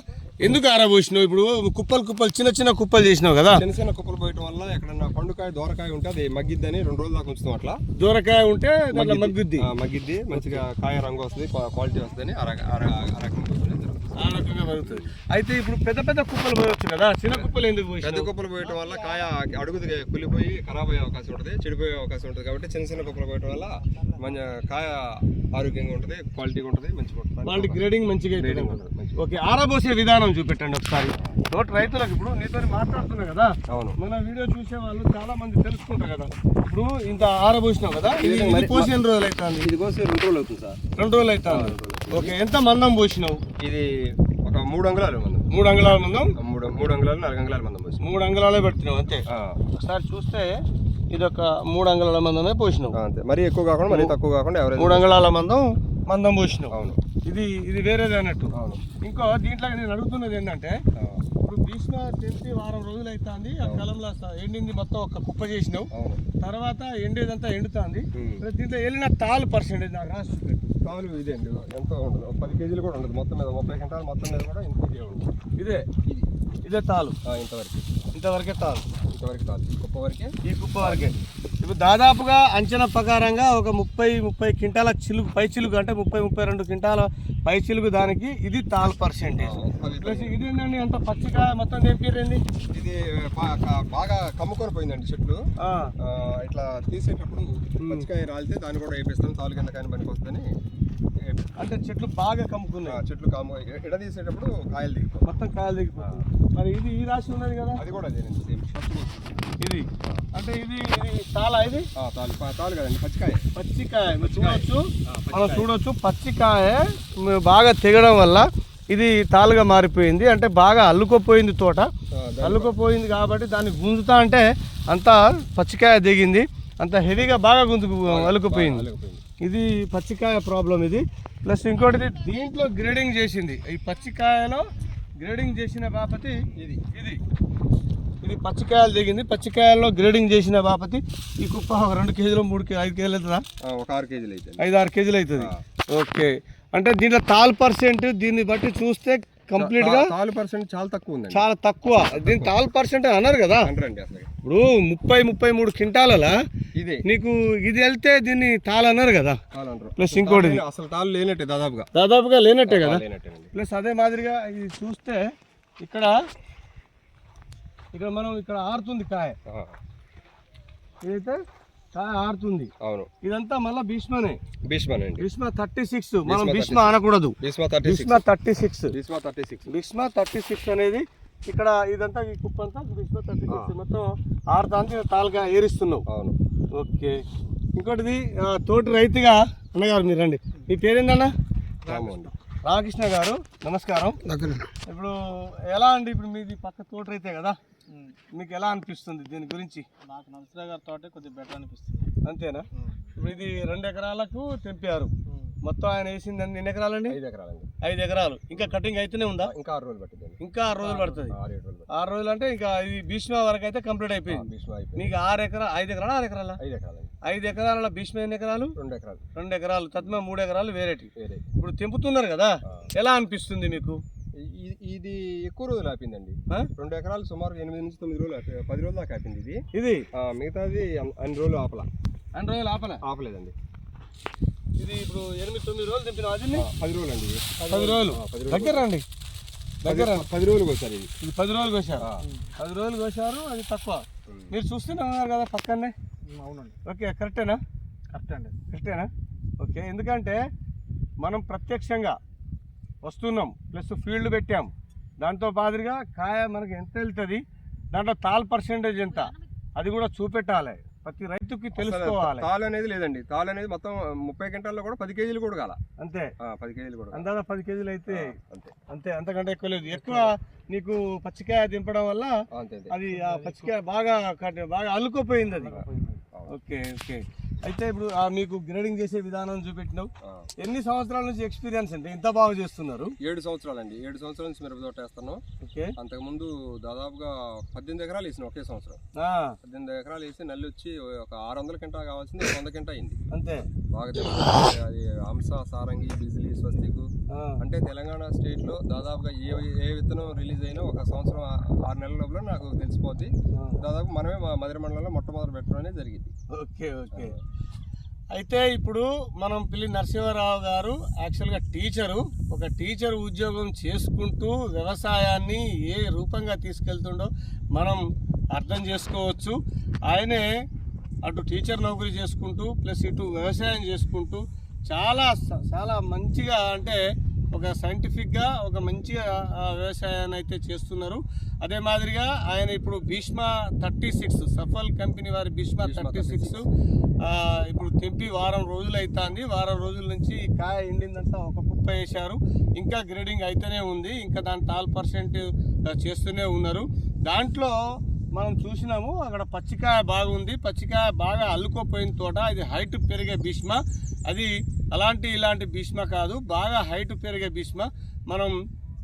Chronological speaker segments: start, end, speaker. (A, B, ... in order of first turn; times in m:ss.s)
0:00.4-0:03.6 A
0:03.5-0:07.8 B
0:08.0-0:09.7 A
0:08.9-0:15.1 B
0:10.3-0:10.6 A
0:14.2-0:18.3 A
0:18.0-0:27.8 B
0:27.4-0:39.7 A
0:28.4-0:29.2 B
0:33.7-0:34.0 B
0:38.1-0:38.9 B
0:39.6-0:40.8 B
0:41.0-0:43.4 A
0:41.4-0:42.4 B
0:43.6-0:45.5 B
0:45.5-0:46.3 A
0:46.4-0:48.0 B
0:48.0-0:53.0 A
0:49.3-0:49.6 B
0:52.9-0:55.2 B
0:53.9-0:54.1 A
0:54.8-1:00.8 A
0:56.7-0:57.0 B
0:58.5-0:58.8 B
1:00.9-1:01.2 B
1:01.4-1:05.9 A
1:05.9-1:06.2 B
1:06.4-1:10.7 A
1:08.1-1:08.4 B
1:10.8-1:15.3 B
1:15.6-1:15.9 A
1:16.6-1:17.2 A
1:17.2-1:17.8 B
1:18.1-1:18.8 A
1:19.1-1:21.2 B
1:20.4-1:32.4 A
1:29.4-1:30.4 B
1:32.7-1:35.4 B
1:35.6-1:35.9 A
1:36.0-1:40.5 B
1:37.8-1:38.1 A
1:41.2-1:41.5 B
1:41.6-1:43.0 A
1:42.8-1:45.3 B
1:45.2-1:47.8 A
1:46.0-1:46.2 B
1:47.8-1:49.4 B
1:49.6-1:51.9 A
1:51.9-1:53.4 B
1:53.5-2:01.9 A
1:54.1-1:55.7 B
2:02.1-2:02.8 B
2:02.4-2:08.9 A
2:07.1-2:07.4 B
2:08.0-2:09.2 B
2:09.4-2:14.6 A
2:15.2-2:16.4 A
2:16.6-2:16.8 B
2:16.9-2:17.2 A
2:18.2-2:23.4 A
2:23.6-2:24.7 B
2:24.6-2:30.1 A
2:25.4-2:25.6 B
2:29.6-2:32.5 B
2:31.3-2:33.7 A
2:33.6-2:34.3 B
2:34.4-2:36.3 A
2:36.7-2:37.0 B
2:37.0-2:39.4 A
2:39.5-2:41.9 B
2:40.0-2:40.6 A
2:41.9-2:43.0 A
2:42.6-2:43.5 B
2:43.5-2:45.2 A
2:45.8-2:46.1 A
2:47.9-2:49.4 A
2:49.4-2:49.8 B
2:51.0-2:51.4 A
2:51.9-2:52.7 A
2:52.8-2:53.1 B
2:53.2-2:54.4 A
2:54.7-2:55.2 B
2:55.2-2:58.9 A
2:56.2-2:58.2 B
2:58.9-2:59.7 B
2:59.7-3:06.0 A
3:03.5-3:03.7 B
3:06.1-3:06.4 B
3:06.7-3:07.2 A
3:07.7-3:11.3 A
3:11.8-3:12.3 B
3:12.6-3:14.2 A
3:14.2-3:14.7 B
3:14.9-3:17.6 A
3:18.3-3:19.9 A
3:20.0-3:22.1 C
3:22.2-3:27.2 A
3:27.1-3:27.7 B
3:27.8-3:29.5 A
3:29.4-3:30.4 B
3:30.4-3:31.3 A
3:30.9-3:31.9 B
3:31.9-3:34.4 A
3:34.3-3:35.1 B
3:35.0-3:36.6 A
3:36.6-3:37.1 B
3:37.2-3:38.7 A
3:38.8-3:39.2 B
3:39.4-3:44.0 A
3:41.2-3:41.4 B
3:42.6-3:42.9 B
3:44.4-3:49.6 B
3:49.7-3:50.1 A
3:50.1-3:51.9 B
3:52.3-3:53.0 A
3:53.0-3:53.5 B
3:54.8-3:56.6 A
3:56.5-3:58.8 B
3:57.6-3:59.0 A
3:59.8-4:00.3 A
3:59.8-4:01.1 B
4:01.2-4:05.9 A
4:02.0-4:02.3 B
4:04.3-4:04.5 B
4:06.3-4:06.7 C
4:06.8-4:07.6 A
4:08.1-4:08.5 C
4:08.6-4:09.1 A
4:09.6-4:10.4 A
4:11.2-4:12.2 A
4:13.0-4:17.4 A
4:17.9-4:22.5 A
4:21.8-4:25.8 B
4:26.0-4:26.3 A
4:26.4-4:27.3 B
4:27.1-4:28.3 A
4:28.1-4:28.7 B
4:28.9-4:32.3 A
4:30.0-4:30.3 B
4:32.5-4:33.0 B
4:32.9-4:35.8 A
4:33.1-4:33.7 C
4:35.7-4:36.2 C
4:35.7-4:36.5 B
4:36.5-4:43.1 A
4:40.2-4:40.5 B
4:43.2-4:45.4 B
4:45.6-4:45.9 A
4:46.0-4:49.0 B
4:49.2-4:49.6 A
4:49.6-4:53.2 B
4:53.3-4:53.6 A
4:53.9-4:57.1 B
4:57.3-4:57.6 A
4:57.6-5:06.3 B
5:03.5-5:03.8 A
5:06.5-5:07.3 A
5:07.1-5:07.4 B
5:08.4-5:18.0 A
5:18.5-5:19.6 A
5:20.1-5:20.5 A
5:21.2-5:27.0 A
5:27.5-5:36.7 A
5:35.8-5:36.6 B
5:37.2-5:47.7 A
5:48.3-5:58.5 A